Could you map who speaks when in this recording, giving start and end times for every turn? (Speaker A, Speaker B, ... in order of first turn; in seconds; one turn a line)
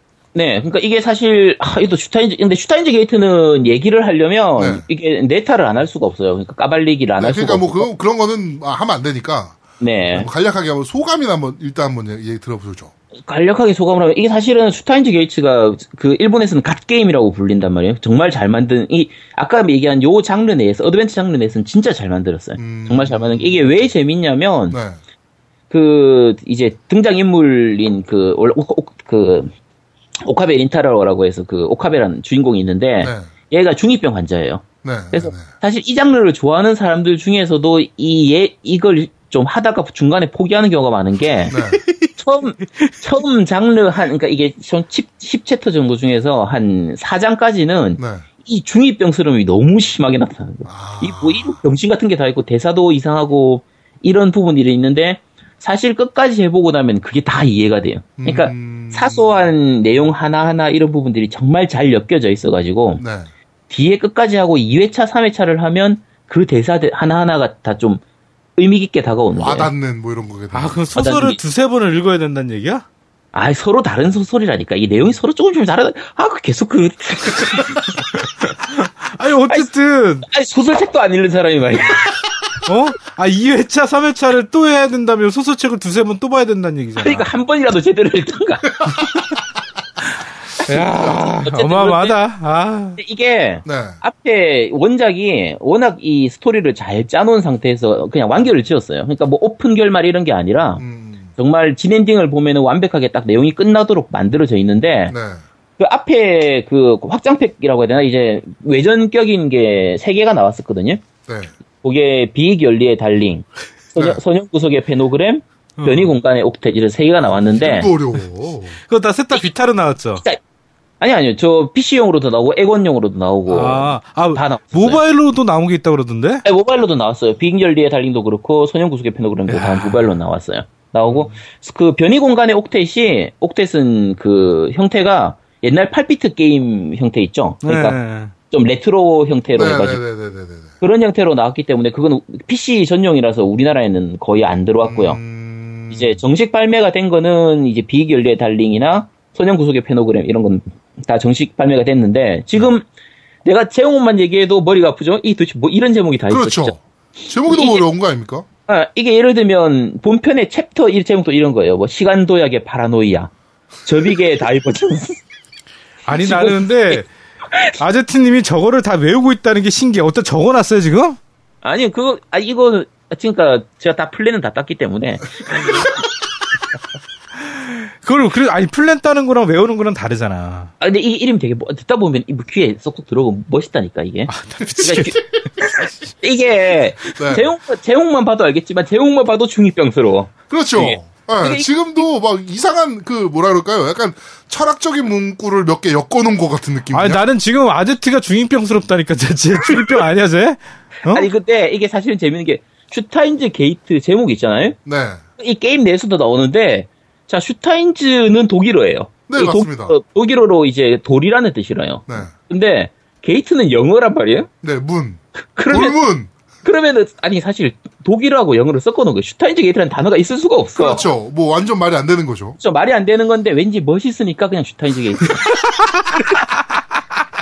Speaker A: 0.3-7.9
Speaker B: 4.6-4.8
Speaker B: 7.2-9.6
Speaker A: 9.8-10.3
Speaker B: 10.1-12.9
Speaker A: 13.3-24.8
Speaker B: 22.6-23.9
Speaker B: 24.7-25.0
Speaker A: 25.7-29.5
Speaker A: 30.2-41.6
Speaker B: 33.0-33.3
Speaker B: 34.8-35.5
Speaker B: 41.5-41.8
Speaker A: 42.2-63.0
Speaker B: 48.0-48.2
Speaker B: 50.6-51.6
Speaker B: 58.2-59.3
Speaker B: 63.0-63.3
Speaker A: 63.7-68.0
Speaker A: 68.6-69.7
Speaker B: 69.4-70.8
Speaker C: 70.5-72.8
Speaker A: 70.9-71.4
Speaker A: 73.3-78.0
Speaker C: 78.4-80.3
Speaker A: 80.2-82.2
Speaker C: 82.7-87.3
Speaker A: 87.0-89.0
Speaker C: 90.6-93.0
Speaker A: 90.7-92.2
Speaker A: 93.0-100.8
Speaker B: 93.6-94.0
Speaker B: 100.8-101.3
Speaker A: 101.4-105.1
Speaker B: 105.1-105.4
Speaker A: 105.8-111.0
Speaker B: 111.3-111.5
Speaker A: 111.8-117.9
Speaker B: 114.0-114.2
Speaker C: 115.8-116.1
Speaker B: 117.2-118.8
Speaker C: 118.9-120.2
Speaker A: 121.0-125.0
Speaker C: 123.5-126.4
Speaker A: 126.4-138.0
Speaker C: 129.5-130.1
Speaker C: 137.6-138.3
Speaker A: 138.5-140.0
Speaker B: 139.5-140.7
Speaker A: 140.8-145.2
Speaker B: 144.8-146.2
Speaker A: 145.9-152.8
Speaker A: 153.4-156.7
Speaker B: 156.3-158.4
Speaker A: 157.4-157.8
Speaker A: 158.7-163.3
Speaker A: 163.8-165.2
Speaker C: 166.1-167.1
Speaker A: 166.1-167.8
Speaker C: 167.8-171.2
Speaker A: 171.6-175.8
Speaker C: 177.4-180.7
Speaker A: 180.8-191.7
Speaker C: 184.3-185.2
Speaker B: 187.2-187.5
Speaker B: 190.5-197.2
Speaker C: 196.9-201.3
Speaker A: 201.1-204.8
Speaker B: 204.8-205.2
Speaker A: 205.4-214.5
Speaker B: 209.3-210.0
Speaker B: 214.6-216.3
Speaker A: 215.6-216.0
Speaker A: 216.6-221.1
Speaker B: 220.8-222.6
Speaker A: 222.6-225.6